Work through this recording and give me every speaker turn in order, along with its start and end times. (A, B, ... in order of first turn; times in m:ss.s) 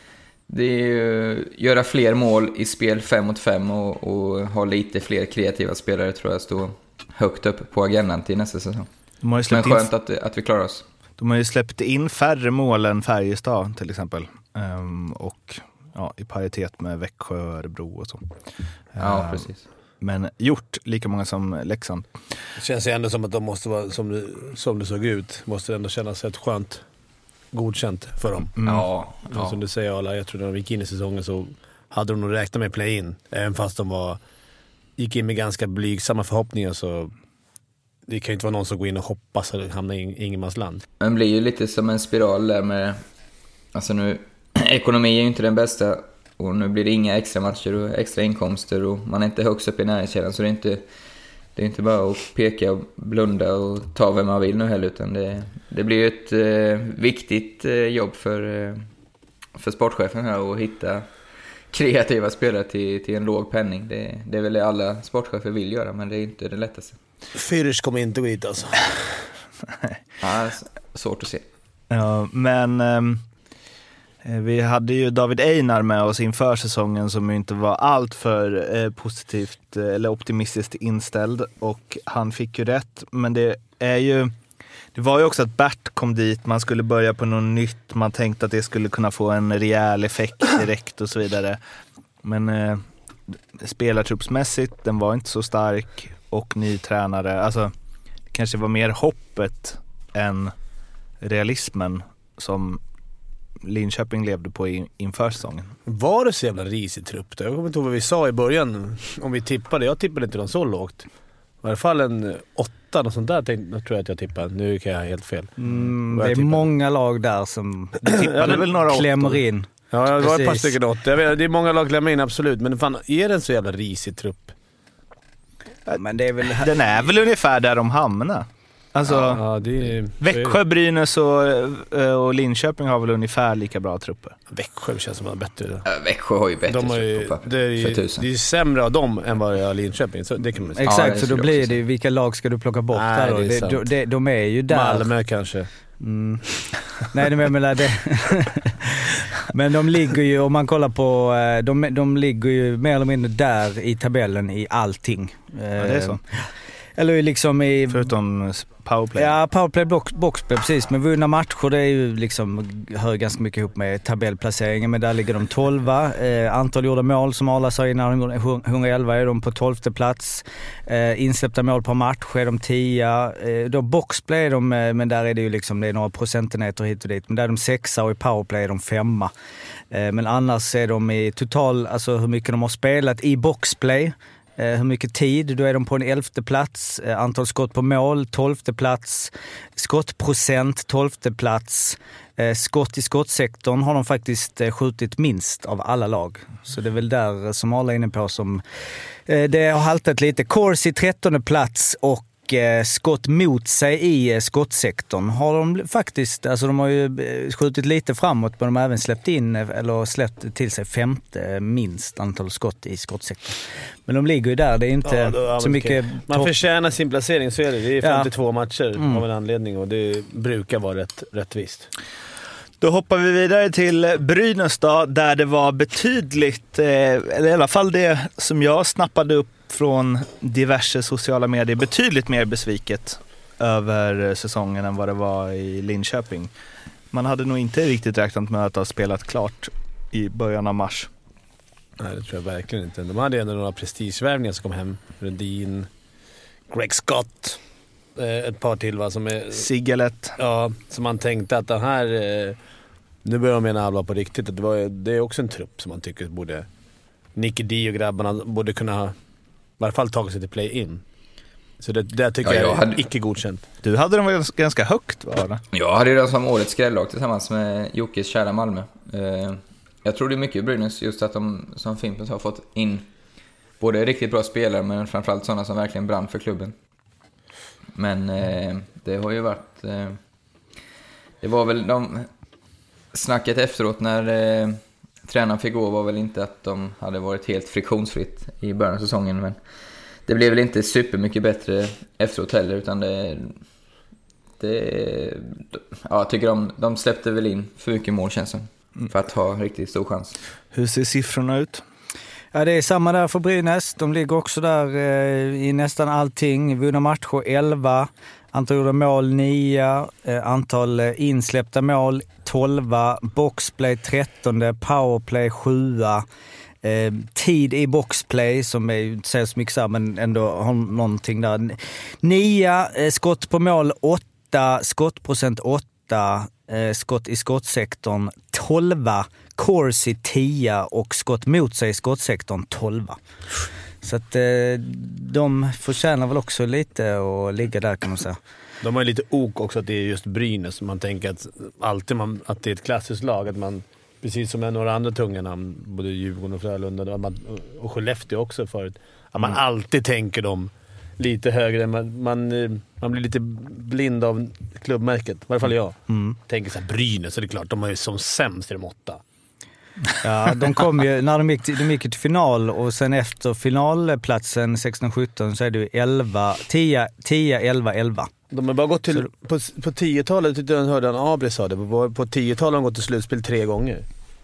0:00.5-0:08.9 A
0:09.2-0:09.9 B
0:09.5-0:10.8 A
0:11.2-0:18.2 B
0:18.9-0:19.5 B
0:19.0-0:19.6 A
0:20.0-0:22.1 B
0:22.6-0:26.8 C
0:27.5-0:28.6 C
0:28.6-0:28.9 B
0:28.6-0:29.6 A
0:29.3-0:34.2 C
0:35.0-0:37.1 C
0:38.1-0:40.8 C
0:41.0-0:43.0 A
0:43.7-0:50.8 A
0:51.6-0:58.8 A
0:59.6-1:01.0 A
1:01.7-1:07.0 A
1:07.3-1:09.2 C
1:10.2-1:11.4 A
1:11.9-1:13.2 B
1:14.2-1:24.3 B
1:24.9-1:31.6 B
1:32.2-1:37.7 B
1:38.3-1:40.5 B
1:41.2-1:42.8 B
1:43.6-1:45.7 B
1:45.9-1:51.0 C
1:51.6-1:56.7 C
1:55.6-2:00.8 D
1:58.0-1:59.4 B
1:58.1-1:58.6 C
1:59.9-2:04.5 C
2:06.0-2:06.7 D
2:06.6-2:09.4 B
2:09.1-2:10.6 C
2:10.2-2:14.4 B
2:14.5-2:15.8 C
2:15.8-2:18.3 A
2:16.7-2:20.8 C
2:20.8-2:25.1 D
2:20.8-2:21.8 A
2:22.9-2:23.9 C
2:24.7-2:25.7 C
2:26.0-2:38.1 D
2:35.8-2:36.2 B
2:37.9-2:39.4 B
2:39.2-2:59.3 D
2:59.9-3:18.6 D
3:19.3-3:36.5 D
3:35.0-3:41.9 C
3:38.0-3:38.3 D
3:39.0-3:39.2 D
3:42.8-3:56.5 B
3:57.1-4:01.1 B
4:02.0-4:05.9 C
4:06.7-4:07.6 C
4:08.2-4:09.7 C
4:09.5-4:10.4 B
4:10.4-4:12.6 C
4:13.2-4:16.7 C
4:17.4-4:19.1 C
4:19.8-4:21.0 C
4:21.8-4:23.6 C
4:22.4-4:23.0 A
4:23.8-4:25.6 B
4:25.7-4:33.0 A
4:33.8-4:36.7 A
4:38.0-4:40.2 A
4:41.4-4:42.3 A
4:43.1-4:49.6 A
4:50.3-4:53.6 A
4:54.6-5:00.4 A
5:00.7-5:01.8 B
5:02.5-5:16.2 D
5:16.8-5:33.2 D
5:34.0-5:38.4 D
5:38.8-5:59.2 C
5:56.1-5:56.4 D
6:00.2-6:08.3 D
6:08.5-6:14.0 C